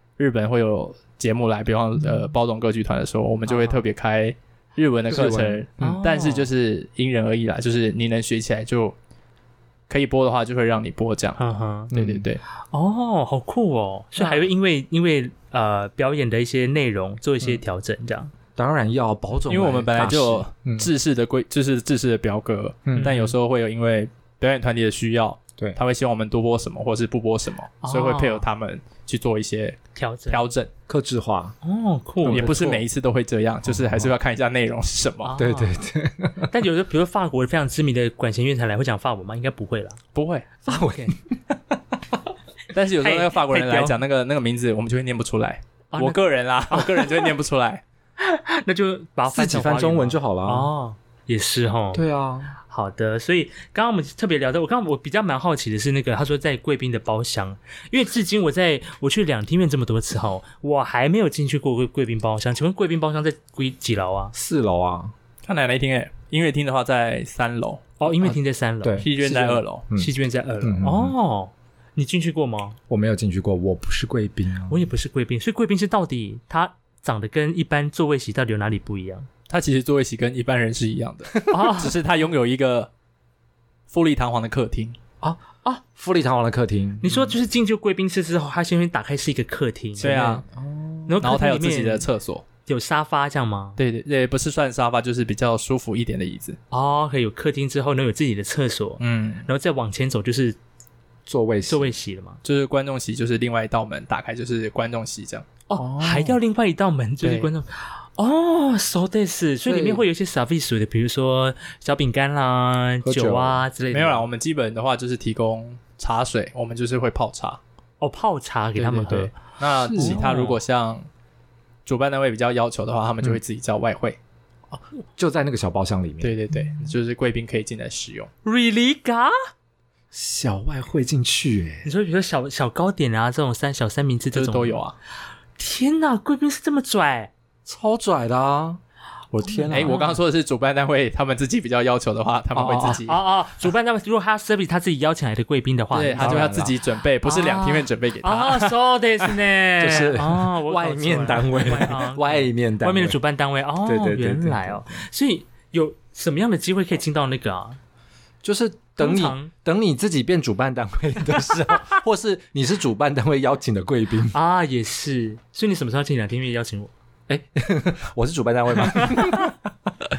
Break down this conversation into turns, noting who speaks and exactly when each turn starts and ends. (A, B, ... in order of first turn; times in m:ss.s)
0:00.2-0:08.9 A
0:03.4-0:03.8 B
0:05.1-0:06.0 C
0:05.8-0:06.5 B
0:09.9-0:11.4 A
0:11.4-0:11.9 B
0:11.9-0:12.4 A
0:11.9-0:12.3 C
0:12.7-0:18.3 B
0:18.6-0:20.9 C
0:19.5-0:30.7 A
0:22.8-0:23.1 C
0:23.0-0:23.3 B
0:27.8-0:28.4 B
0:29.9-0:30.4 B
0:30.9-0:31.6 C
0:31.6-0:32.8 B
0:32.2-0:32.8 C
0:32.3-0:35.3 A
0:33.6-0:34.1 C
0:35.2-0:35.8 B
0:35.4-0:36.5 C
0:36.4-0:40.0 B
0:40.1-0:40.5 A
0:40.6-0:41.1 B
0:40.7-0:41.2 C
0:42.7-0:47.8 A
0:43.0-0:44.0 B
0:45.9-0:47.3 B
0:48.2-0:52.0 B
0:49.3-0:50.7 C
0:51.9-0:52.5 C
0:52.6-1:04.3 B
1:04.3-1:05.1 C
1:05.4-1:07.8 A
1:08.0-1:12.8 B
1:08.2-1:11.1 C
1:09.0-1:09.8 A
1:12.9-1:14.9 C
1:14.7-1:19.3 B
1:19.5-1:22.9 A
1:21.5-1:21.9 B
1:23.9-1:25.0 A
1:25.2-1:27.4 C
1:27.0-1:30.4 B
1:30.0-1:30.4 A
1:30.5-1:31.2 C
1:31.1-1:32.1 B
1:31.2-1:32.4 A
1:32.6-1:33.8 B
1:33.8-1:36.6 A
1:36.7-1:40.6 B
1:39.0-1:39.5 A
1:41.3-1:41.9 C
1:41.7-1:42.4 B
1:42.4-1:45.5 A
1:45.7-1:54.2 B
1:45.8-1:46.4 C
1:47.2-1:47.5 A
1:49.6-1:50.0 C
1:53.0-1:53.6 C
1:53.9-1:57.6 A
1:58.0-1:59.3 B
1:58.8-2:01.1 A
1:59.8-2:00.2 C
1:59.9-2:00.6 B
2:01.8-2:04.2 A
2:04.7-2:06.4 C
2:06.2-2:08.3 A
2:08.4-2:09.3 B
2:10.1-2:11.9 C
2:11.8-2:14.8 B
2:14.3-2:14.9 A
2:15.6-2:17.3 B
2:17.6-2:18.8 C
2:19.3-2:20.1 C
2:19.4-2:20.2 B
2:19.7-2:23.2 A
2:22.5-2:23.0 C
2:23.0-2:26.6 B
2:25.9-2:28.8 A
2:26.2-2:26.7 C
2:27.2-2:37.8 B
2:29.8-2:33.2 C
2:33.8-2:35.0 C
2:38.4-2:44.4 C
2:39.0-2:39.5 B
2:44.3-2:46.9 B
2:47.3-2:50.1 C
2:48.8-2:49.5 B